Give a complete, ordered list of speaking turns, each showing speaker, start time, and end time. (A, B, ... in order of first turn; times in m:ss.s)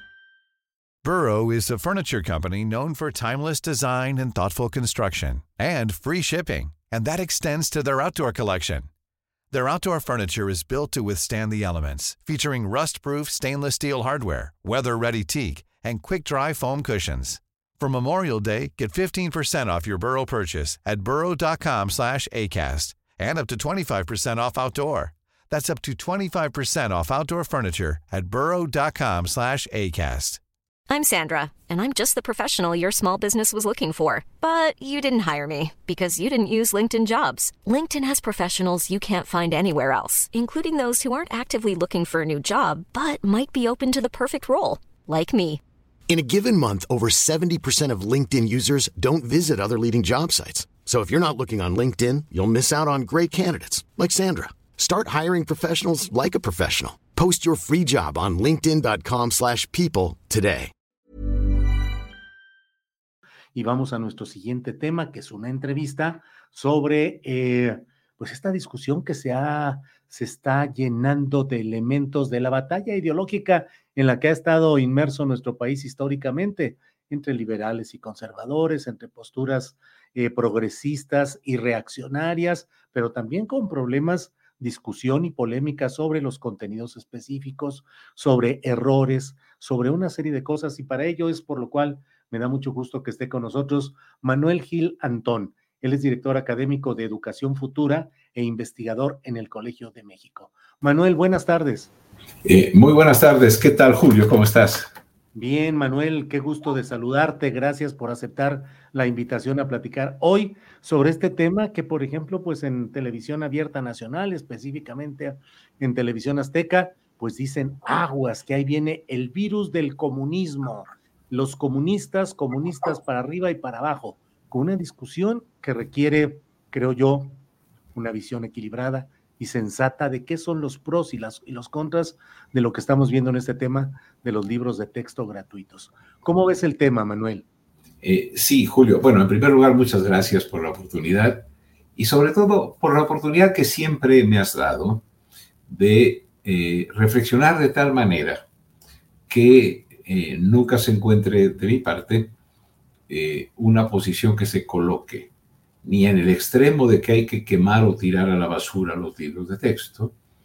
0:01.0-0:08.9 A
0:09.5-0:30.4 A
0:30.9-0:45.6 B
0:46.1-1:00.7 C
1:03.5-1:41.9 D
1:42.4-1:44.9 E
1:45.3-2:07.4 D
2:07.9-2:17.4 D
2:18.0-2:25.0 E
2:25.7-2:28.4 E
2:29.3-2:32.3 E
2:33.1-2:35.3 E
2:35.8-2:40.1 E